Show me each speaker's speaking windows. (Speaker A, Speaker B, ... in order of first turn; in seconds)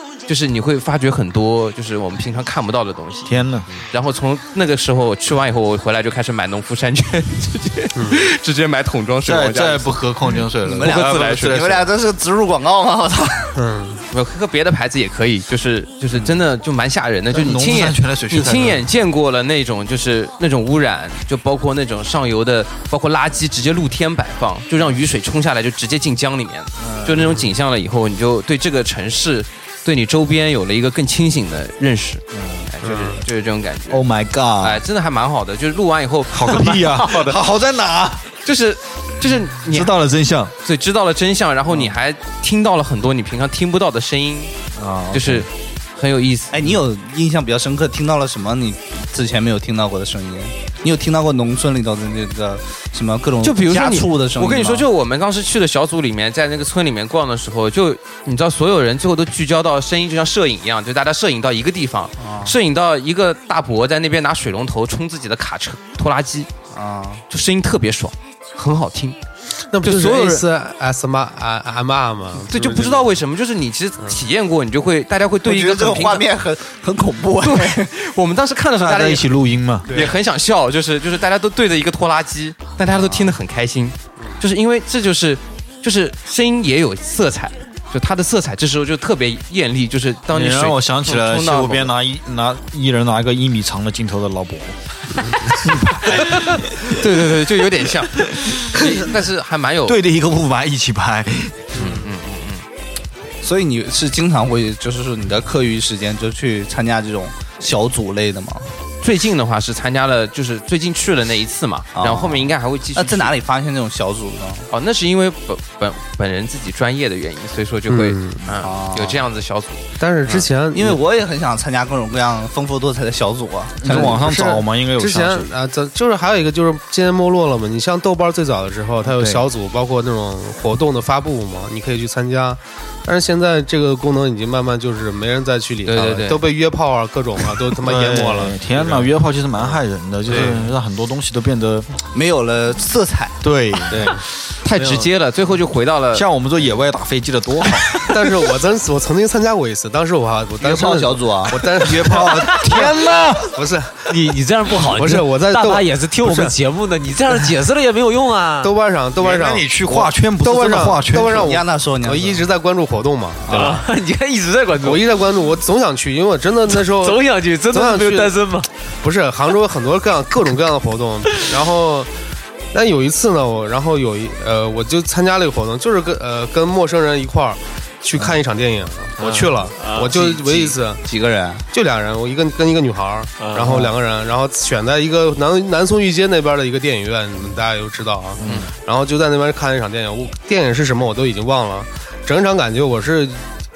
Speaker A: 0.3-3.3, 3.9-10.0, 10.8-11.7, 14.1-34.1, 34.6-37.0, 38.5-39.9, 40.6-44.5, 45.1-46.6, 53.4-66.5, 67.3-69.2, 69.8-70.5, 72.4-76.3, 77.4-79.3, 79.9-91.9, 96.0-100.0, 101.8-102.6, 109.0-113.3, 114.7-120.5, 135.9-136.4, 144.6-146.3, 188.4-188.7
Speaker B: 3.3-3.7, 9.2-11.9, 17.3-18.8, 26.8-27.4, 32.3-32.7, 33.9-34.8, 36.3-38.4, 39.7-40.5, 44.8-45.5, 78.8-80.0, 90.3-94.8, 95.5-97.0, 99.9-101.8, 123.8-125.5, 129.1-129.4, 137.8-141.9, 143.4-144.2, 146.1-148.0, 151.8-153.6, 159.2-161.5
Speaker C: 8.0-8.2, 13.6-14.0, 32.8-33.2, 69.7-73.1, 101.8-102.0, 117.9-118.5, 120.0-121.0, 123.8-139.1, 140.3-140.7, 143.9-144.2, 148.1-153.0, 153.5-154.1, 154.8-156.6, 158.6-163.9, 164.8-168.4, 169.0-172.1, 172.7-181.0, 181.7-193.4
Speaker D: 10.6-13.6, 46.5-54.9, 62.2-62.5, 66.7-67.2, 75.4-77.9, 103.4-108.7, 112.0-114.7, 118.5-119.2, 120.7-124.2, 142.1-143.4, 150.6-151.6, 161.3-162.5, 163.5-163.8, 180.1-181.7, 183.6-183.9
Speaker E: 37.1-37.3, 144.8-145.1, 154.1-158.8, 163.5-165.0, 166.7-168.7, 179.2-180.1, 183.4-183.9